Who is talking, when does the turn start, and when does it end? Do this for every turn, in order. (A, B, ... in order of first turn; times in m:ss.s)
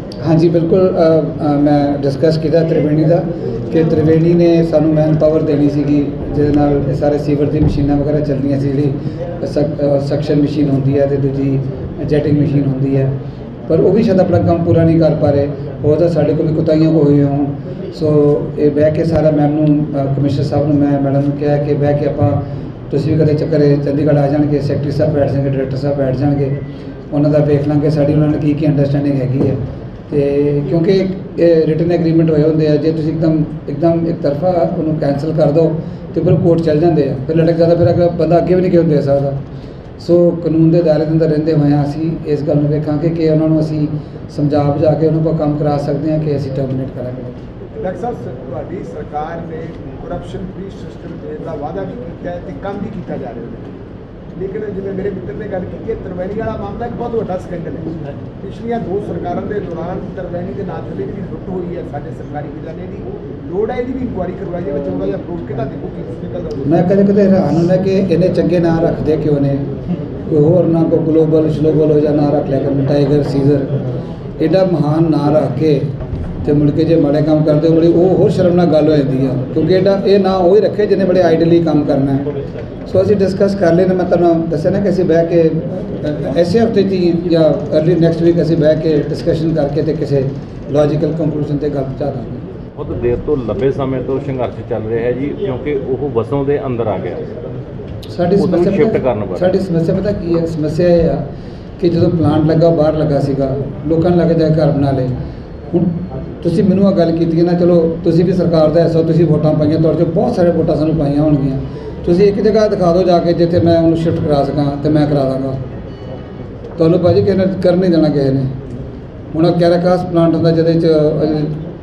0:00.2-0:13.1 A
0:13.7-0:26.6 A
0:27.1-0:39.4 A
0:40.0-0:47.4 A
0:47.8-0:53.7 B
0:54.3-1:06.8 B
1:06.6-1:09.7 A
1:10.3-1:13.8 A
1:14.4-1:15.9 A
1:16.4-1:22.3 A
1:22.9-1:32.4 A
1:32.8-1:37.3 C
1:38.1-1:41.2 A
1:38.4-1:39.5 C
1:41.8-1:45.1 A
1:45.7-1:55.6 A
1:56.8-1:58.5 A
1:59.3-2:01.6 A